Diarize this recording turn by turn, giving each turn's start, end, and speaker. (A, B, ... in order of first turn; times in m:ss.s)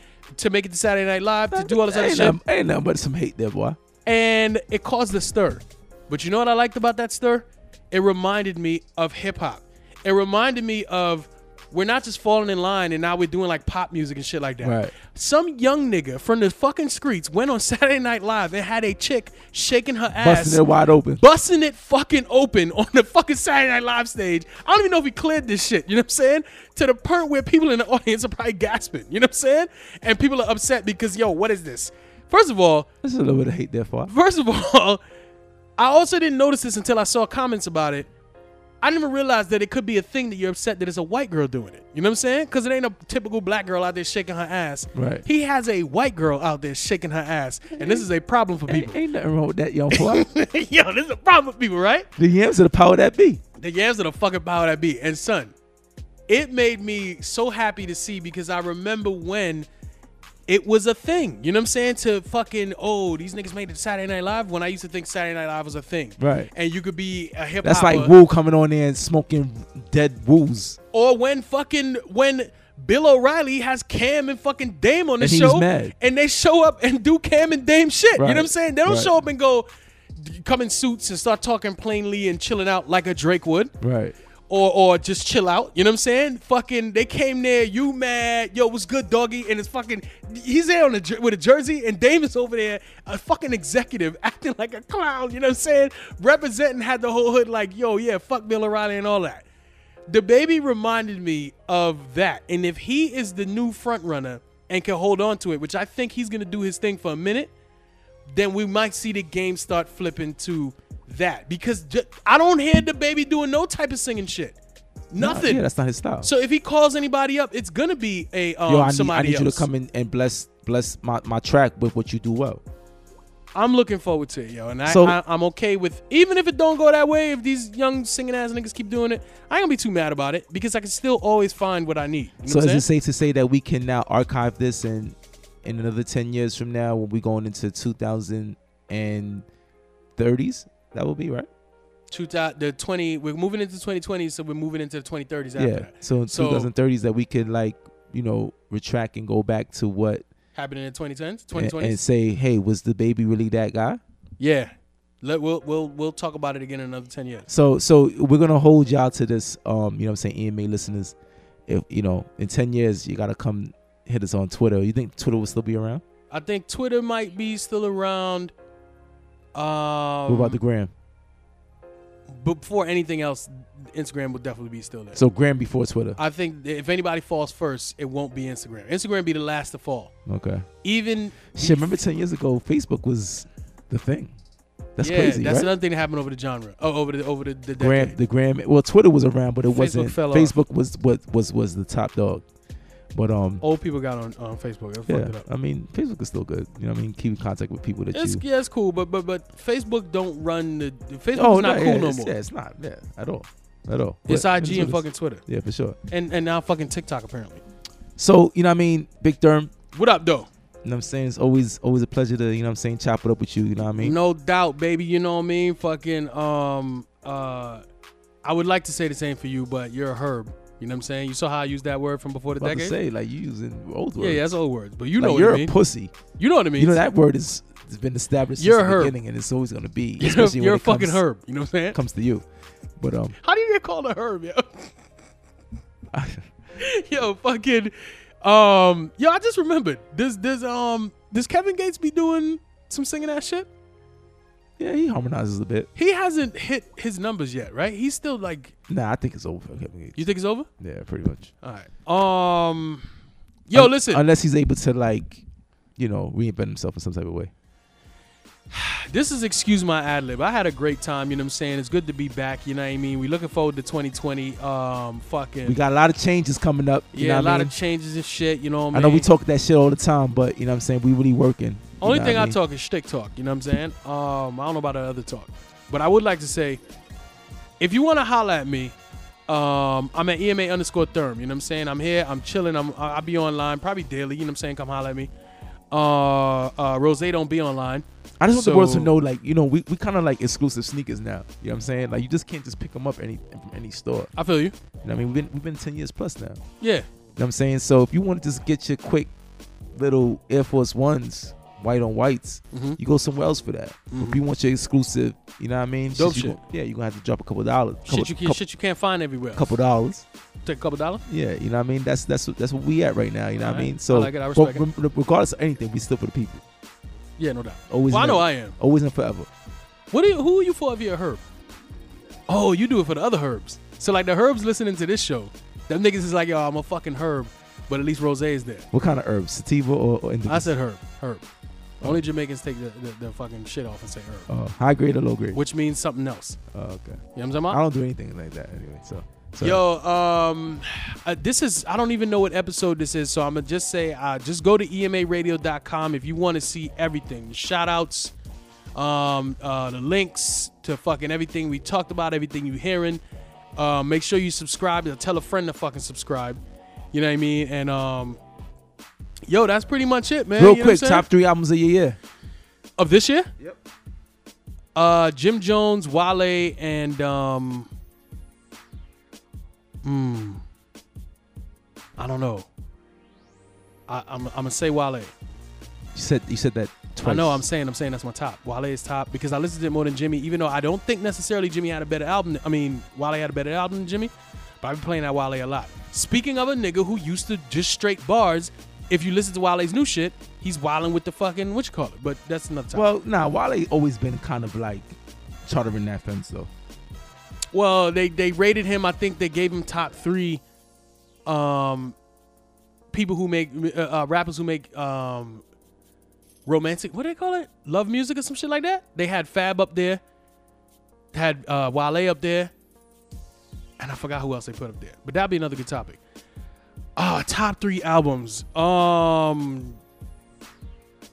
0:00.4-0:02.4 A
0:01.5-0:03.8 B
0:04.1-0:20.6 A
0:14.6-0:14.9 B
0:20.2-0:21.2 B
0:21.2-0:32.9 A
0:33.0-0:34.1 B
0:34.1-0:35.0 A
0:35.8-0:38.1 A
0:38.8-0:49.0 A
0:44.9-0:45.2 B
0:47.8-0:48.0 B
0:48.7-0:50.3 B
0:49.9-0:52.1 A
0:52.2-0:53.4 B
0:53.6-0:55.5 A
0:56.3-0:59.7 A
1:00.5-1:08.2 A
1:06.2-1:06.5 B
1:07.6-1:10.8 B
1:10.9-1:19.7 A
1:15.2-1:15.9 B
1:18.2-1:19.2 B
1:20.2-1:23.7 A
1:23.8-1:24.2 B
1:24.5-1:39.4 A
1:40.1-1:47.5 A
1:48.3-1:54.6 A
1:55.1-1:55.6 A
1:55.2-1:56.3 B
1:56.2-1:59.7 A
1:58.7-2:02.6 B
2:03.6-2:12.9 A
2:04.9-2:05.2 B
2:12.5-2:19.4 B
2:20.2-2:21.5 B
2:22.1-2:26.7 A
2:25.6-2:30.2 B
2:30.6-2:32.0 A
2:31.5-2:34.0 B
2:34.4-2:37.5 A
2:37.5-2:41.2 B
2:41.7-2:46.0 B
2:46.3-2:48.5 A
2:49.6-2:50.6 A
2:50.3-2:50.9 B
2:52.3-2:55.2 A
2:55.1-2:56.2 B
2:56.2-3:00.1 A
3:00.3-3:00.7 B
3:00.8-3:02.0 A
3:01.5-3:04.4 B
3:05.0-3:05.7 B
3:05.0-3:08.2 A
3:07.8-3:12.4 B
3:09.6-3:10.6 A
3:13.1-3:13.6 B
3:13.6-3:15.5 A
3:15.1-3:18.4 B
3:18.1-3:22.3 A
3:21.4-3:26.0 B
3:24.3-3:25.4 A
3:26.1-3:27.6 A
3:28.2-3:29.7 B
3:29.9-3:30.5 A
3:30.8-3:34.2 B
3:34.0-3:37.8 A
3:38.4-3:43.0 A
3:42.6-3:44.6 B
3:44.2-3:45.8 A
3:45.2-3:46.1 B
3:46.4-3:47.0 A
3:46.8-3:51.2 B
3:48.6-3:49.1 A
3:50.2-3:52.0 A
3:51.9-3:52.4 B
3:53.0-3:53.4 B
3:53.4-3:54.9 A
3:56.1-3:56.5 B
3:56.8-4:03.7 A
4:04.8-4:05.9 B
4:06.0-4:08.7 A
4:08.9-4:10.2 B
4:10.2-4:10.7 A
4:10.8-4:11.5 B
4:11.6-4:13.0 A
4:13.7-4:14.2 A
4:13.7-4:15.4 B
4:16.0-4:17.5 B
4:18.7-4:25.8 A
4:25.6-4:27.7 B
4:27.1-4:29.3 A
4:28.9-4:32.6 B
4:32.0-4:36.8 A
4:37.8-4:39.0 A
4:39.5-4:45.3 A
4:45.9-4:49.1 A
4:48.4-4:54.3 B
4:54.4-4:54.7 A
4:55.0-4:56.6 B
4:56.8-4:57.1 A
4:57.4-4:59.3 B
4:59.9-5:08.6 B
5:02.7-5:03.0 A
5:04.1-5:04.4 A
5:06.2-5:06.6 A
5:08.1-5:09.7 A
5:09.6-5:10.3 B
5:10.6-5:11.2 A
5:11.3-5:16.6 B
5:13.6-5:14.9 A
5:17.4-5:18.8 A
5:17.9-5:19.5 B
5:20.1-5:21.4 A
5:22.5-5:28.9 A
5:28.9-5:30.7 B
5:30.5-5:31.4 A
5:32.0-5:34.5 A
5:34.5-5:35.6 B
5:35.5-5:36.6 A
5:36.7-5:39.8 B
5:37.4-5:37.8 A
5:39.6-5:48.3 A
5:49.0-5:53.2 A
5:53.8-5:56.6 A
5:57.1-5:58.4 A
5:59.5-6:01.2 A
6:00.6-6:02.2 B
6:03.0-6:03.5 A
6:05.0-6:07.9 A
6:10.0-6:10.6 A
6:12.2-6:12.7 A
6:14.1-6:15.3 A
6:16.1-6:17.6 B
6:17.2-6:33.1 A
6:32.9-6:36.7 B
6:37.7-6:40.6 A
6:41.5-6:42.2 A
6:43.1-6:45.6 A
6:46.7-6:50.2 A
6:51.3-6:52.7 A
6:54.0-6:56.2 A
6:57.2-7:00.0 A